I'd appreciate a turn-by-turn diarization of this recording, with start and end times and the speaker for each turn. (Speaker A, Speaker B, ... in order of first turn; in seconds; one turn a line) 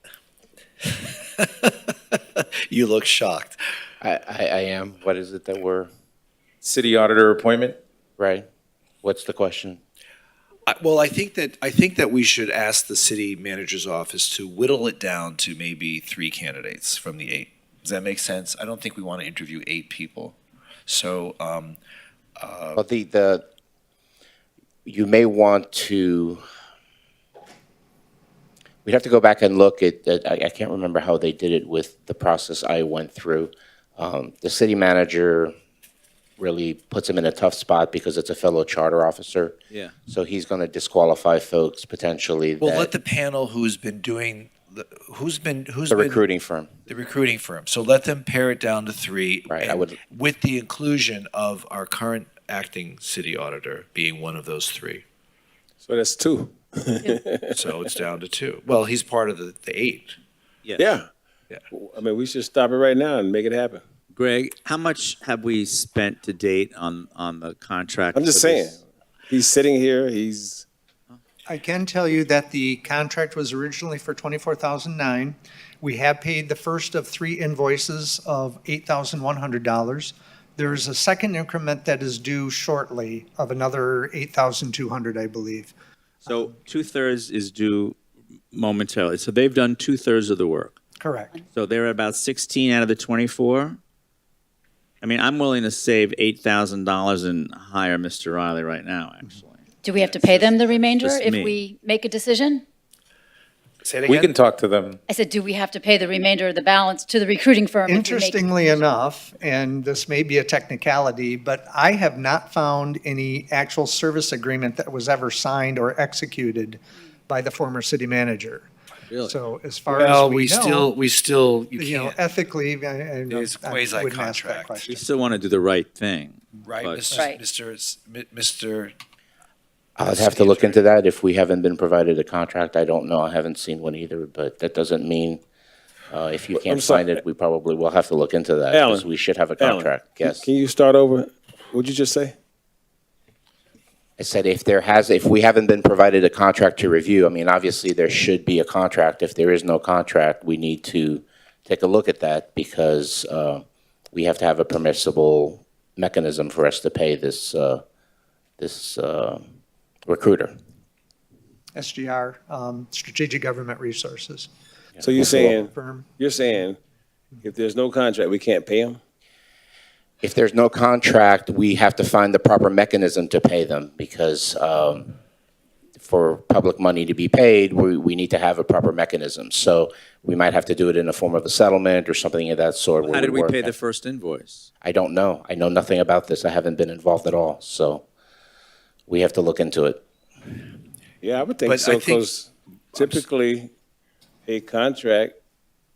Speaker A: 1.4-3.6
Speaker B: 4.0-5.9
Speaker C: 6.6-7.8
Speaker B: 8.2-8.5
Speaker B: 9.0-9.8
Speaker A: 10.7-21.8
Speaker A: 22.4-22.8
Speaker B: 22.8-23.4
Speaker B: 24.9-26.4
Speaker B: 28.9-35.5
Speaker B: 36.4-39.5
Speaker B: 40.1-42.9
Speaker A: 42.6-46.3
Speaker B: 45.9-46.7
Speaker A: 46.9-55.0
Speaker B: 49.5-50.0
Speaker D: 55.8-57.9
Speaker A: 57.5-60.2
Speaker D: 60.8-61.1
Speaker D: 61.7-63.8
Speaker E: 64.1-68.8
Speaker D: 68.1-70.7
Speaker F: 71.5-85.7
Speaker F: 86.2-86.5
Speaker E: 86.3-88.0
Speaker E: 88.5-90.8
Speaker F: 91.0-91.3
Speaker E: 91.5-93.8
Speaker E: 95.0-99.6
Speaker G: 99.8-102.6
Speaker A: 100.0-100.5
Speaker E: 100.9-101.6
Speaker A: 103.8-104.3
Speaker C: 104.1-105.0
Speaker G: 105.1-108.9
Speaker F: 107.9-120.9
Speaker A: 119.9-122.2
Speaker F: 121.8-125.0
Speaker A: 123.3-124.9
Speaker E: 124.9-127.2
Speaker A: 126.6-128.9
Speaker G: 127.2-127.4
Speaker B: 130.0-135.4
Speaker A: 130.0-130.8
Speaker B: 136.1-140.5
Speaker D: 136.6-137.1
Speaker D: 138.7-139.1
Speaker D: 139.6-142.3
Speaker B: 144.2-157.8
Speaker B: 158.6-159.4
Speaker B: 160.1-160.5
Speaker F: 161.7-164.5
Speaker D: 165.0-166.8
Speaker F: 165.1-166.2
Speaker D: 167.4-169.0
Speaker B: 170.2-175.2
Speaker B: 176.0-183.7
Speaker E: 183.0-184.7
Speaker B: 184.8-188.0
Speaker B: 189.1-190.0
Speaker D: 191.2-193.7
Speaker A: 191.6-192.3
Speaker A: 192.9-193.2
Speaker D: 194.5-195.3